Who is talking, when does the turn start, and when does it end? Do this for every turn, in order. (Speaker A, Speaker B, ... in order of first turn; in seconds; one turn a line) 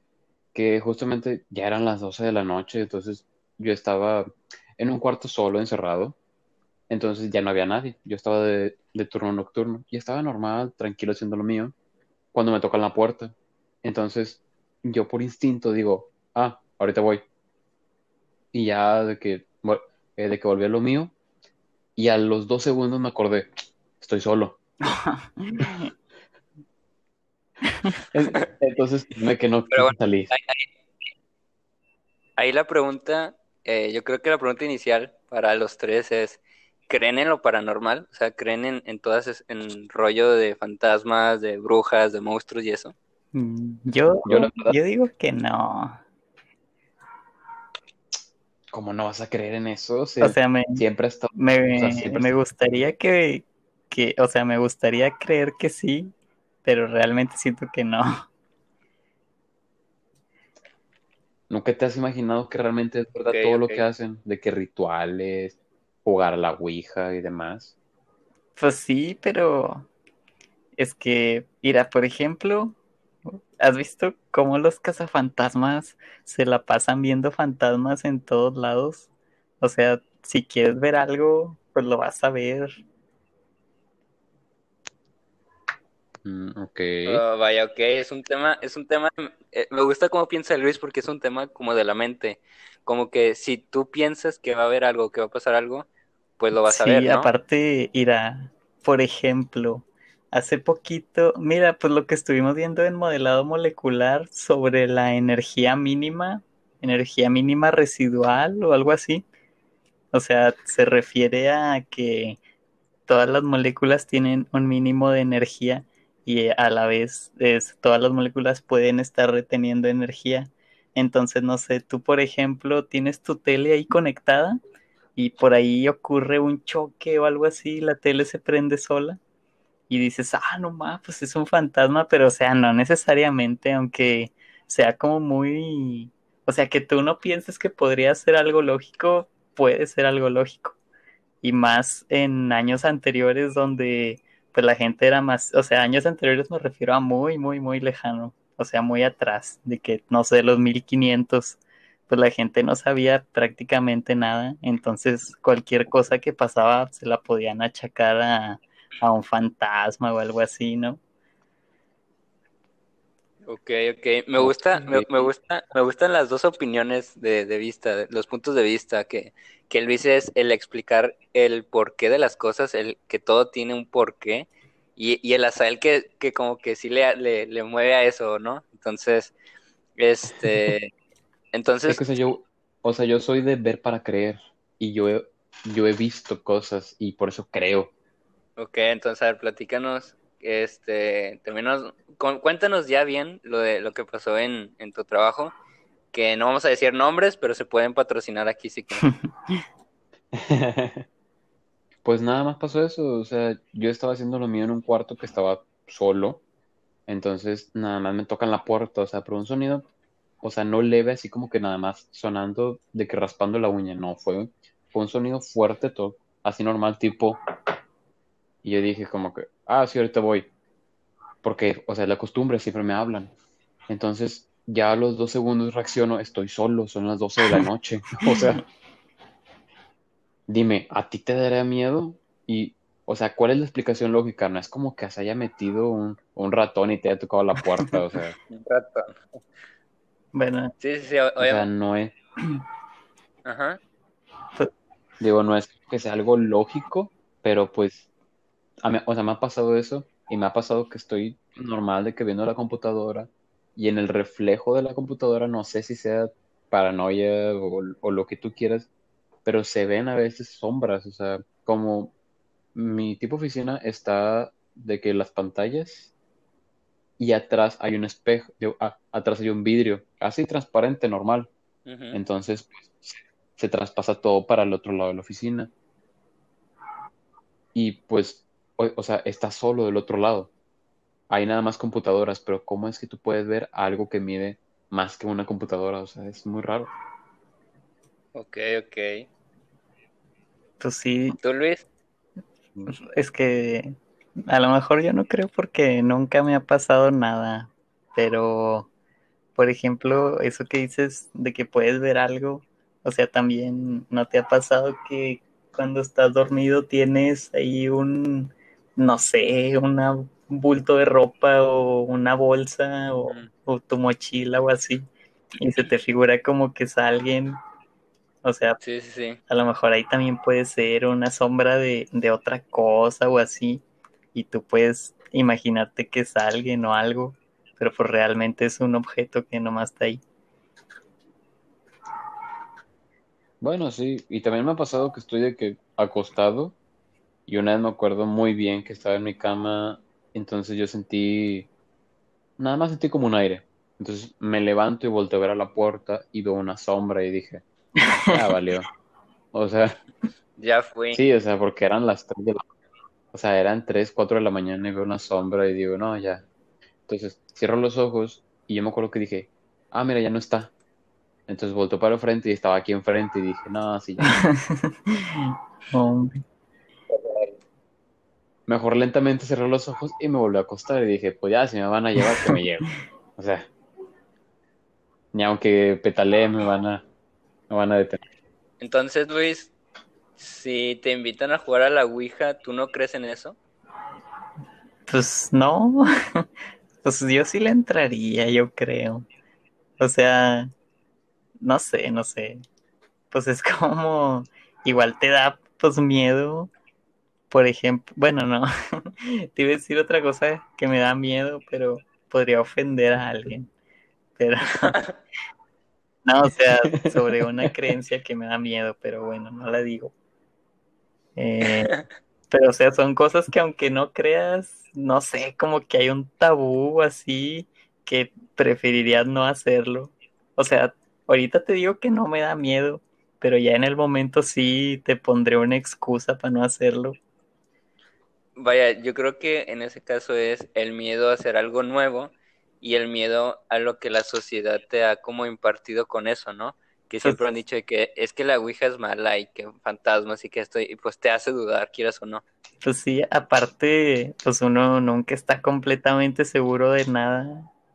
Speaker A: 0.5-6.2
Speaker A: 6.9-11.7
Speaker A: 12.3-17.2
Speaker A: 18.5-21.1
Speaker A: 21.9-24.6
Speaker B: 24.9-25.9
Speaker A: 28.1-30.3
Speaker C: 29.7-30.7
Speaker C: 32.4-42.9
Speaker B: 43.3-46.0
Speaker A: 44.2-44.8
Speaker A: 48.7-52.5
Speaker B: 50.2-50.8
Speaker B: 51.3-56.1
Speaker B: 56.6-58.3
Speaker A: 61.5-67.7
Speaker C: 63.2-63.8
Speaker B: 68.6-69.9
Speaker B: 70.8-72.8
Speaker B: 73.3-79.1
Speaker B: 79.6-82.8
Speaker A: 86.2-87.2
Speaker C: 87.0-95.9
Speaker C: 96.4-97.3
Speaker B: 96.7-109.2
Speaker B: 110.1-112.4
Speaker B: 113.1-124.6
Speaker B: 125.2-129.2
Speaker B: 129.9-140.8
Speaker B: 141.4-161.0
Speaker C: 163.4-179.3
Speaker A: 164.4-165.3
Speaker C: 180.0-180.9
Speaker C: 181.5-182.0
Speaker A: 181.8-187.9
Speaker C: 188.6-195.5
Speaker C: 196.1-199.1
Speaker A: 200.3-201.1
Speaker A: 202.0-206.4
Speaker A: 207.1-209.8
Speaker A: 210.4-217.4
Speaker A: 218.6-220.5
Speaker A: 221.4-223.3
Speaker A: 223.9-228.6
Speaker A: 230.5-238.3
Speaker C: 238.5-239.4
Speaker B: 240.3-240.7
Speaker C: 240.8-241.7
Speaker A: 241.4-242.1
Speaker C: 243.4-243.8
Speaker A: 245.2-248.1
Speaker A: 248.8-258.9
Speaker A: 259.4-262.1
Speaker A: 262.7-266.1
Speaker A: 267.2-271.5
Speaker C: 271.9-272.2
Speaker A: 272.1-275.7
Speaker A: 277.7-280.5
Speaker A: 281.3-286.9
Speaker C: 288.3-289.3
Speaker B: 290.8-291.4
Speaker C: 291.4-291.9
Speaker B: 292.9-293.9
Speaker B: 294.5-298.9
Speaker B: 299.6-317.6
Speaker C: 313.2-313.5
Speaker B: 318.4-318.8
Speaker C: 318.8-319.4
Speaker B: 319.5-323.8
Speaker B: 324.3-330.2
Speaker A: 333.6-336.8
Speaker A: 337.5-341.7
Speaker A: 342.6-347.6
Speaker A: 348.3-348.9
Speaker A: 349.5-350.0
Speaker C: 350.6-351.2
Speaker A: 351.1-352.7
Speaker A: 353.3-356.4
Speaker A: 357.1-360.7
Speaker A: 361.5-364.4
Speaker B: 364.4-366.4
Speaker A: 368.7-373.7
Speaker A: 375.3-377.0
Speaker A: 377.7-378.2
Speaker C: 378.8-379.7
Speaker C: 380.4-383.6
Speaker B: 385.1-386.4
Speaker B: 387.0-389.2
Speaker B: 390.0-390.7
Speaker B: 391.6-392.6
Speaker B: 393.3-396.7
Speaker B: 397.5-403.7
Speaker B: 404.4-404.9
Speaker C: 404.9-405.2
Speaker B: 406.2-410.1
Speaker A: 406.9-407.7
Speaker B: 411.4-411.9
Speaker B: 412.5-427.2
Speaker C: 428.6-442.4
Speaker B: 442.8-447.7